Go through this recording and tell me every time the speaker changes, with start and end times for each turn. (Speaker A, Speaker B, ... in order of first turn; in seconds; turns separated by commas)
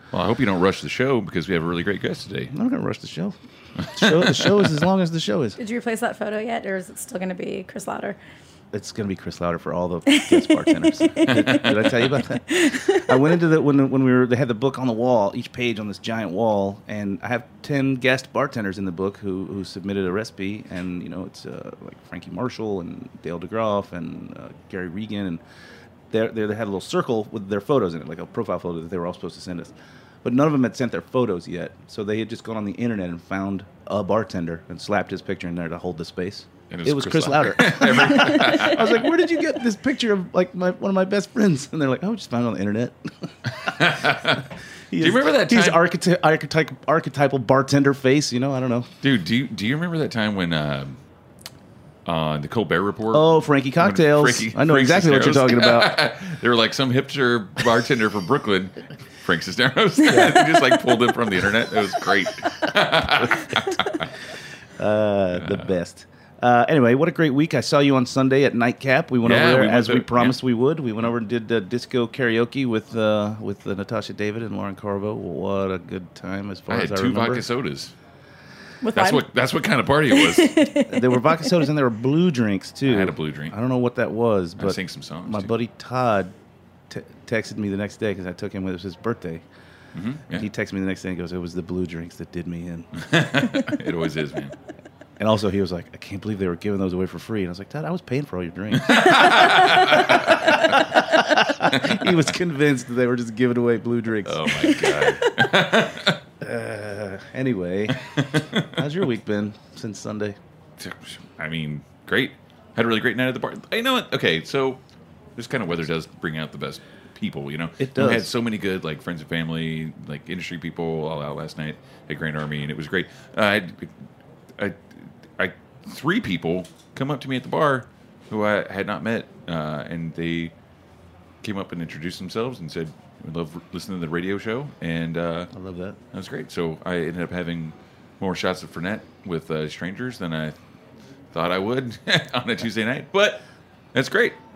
Speaker A: 0.1-2.5, Speaker B: 2.5-5.6, Speaker A: 4.0-4.8, Speaker C: 5.6-8.2, Speaker B: 8.7-25.4, Speaker C: 10.1-11.7, Speaker A: 11.3-12.0, Speaker C: 12.5-13.1, Speaker B: 26.1-29.7, Speaker B: 30.2-44.2, Speaker A: 36.7-39.1, Speaker A: 43.6-44.4, Speaker B: 44.9-48.9, Speaker A: 45.0-45.8, Speaker A: 49.0-51.0, Speaker A: 52.1-64.1, Speaker B: 53.1-56.0, Speaker B: 60.0-60.6, Speaker B: 64.8-77.5, Speaker A: 65.4-65.7, Speaker A: 69.2-70.4, Speaker A: 76.7-77.9, Speaker C: 78.8-79.2, Speaker A: 79.0-80.7, Speaker C: 80.1-81.7, Speaker B: 80.9-86.3, Speaker A: 82.9-83.5, Speaker A: 84.6-85.5, Speaker B: 86.9-89.5, Speaker A: 90.0-90.5, Speaker B: 90.3-92.9, Speaker A: 93.0-94.5, Speaker B: 95.2-105.0, Speaker A: 98.7-100.8, Speaker A: 101.7-102.2, Speaker A: 104.2-106.2, Speaker B: 106.4-110.4, Speaker A: 108.1-108.7, Speaker A: 110.8-114.8, Speaker A: 115.4-123.9, Speaker B: 117.8-118.3, Speaker A: 125.4-130.5, Speaker A: 131.4-135.5, Speaker B: 135.5-136.0, Speaker A: 136.1-140.6, Speaker A: 141.3-144.4